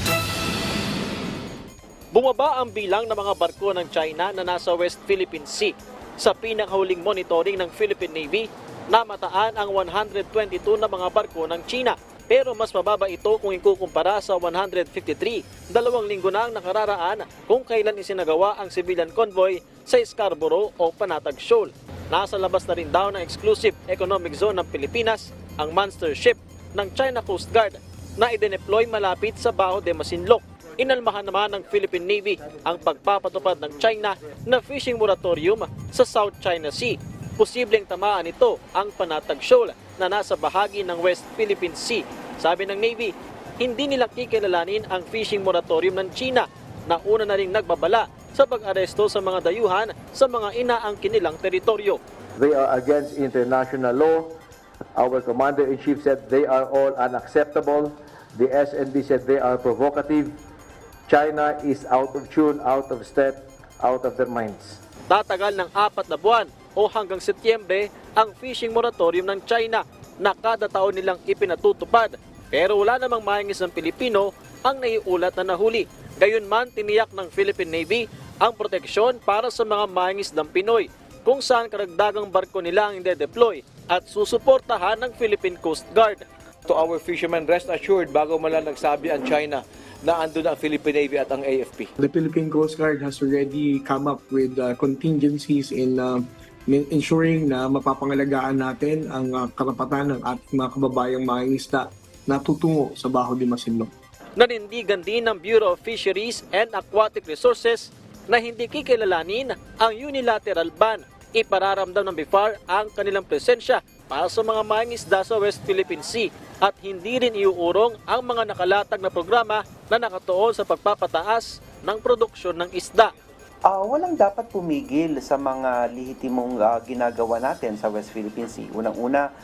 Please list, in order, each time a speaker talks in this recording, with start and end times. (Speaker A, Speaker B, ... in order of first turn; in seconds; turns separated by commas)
Speaker A: 2.1-52.0, Speaker B: 52.4-54.4, Speaker B: 55.0-60.3, Speaker B: 61.1-64.8, Speaker A: 65.1-86.2, Speaker C: 86.7-91.9, Speaker D: 92.0-103.9, Speaker A: 104.4-123.1, Speaker E: 123.7-129.3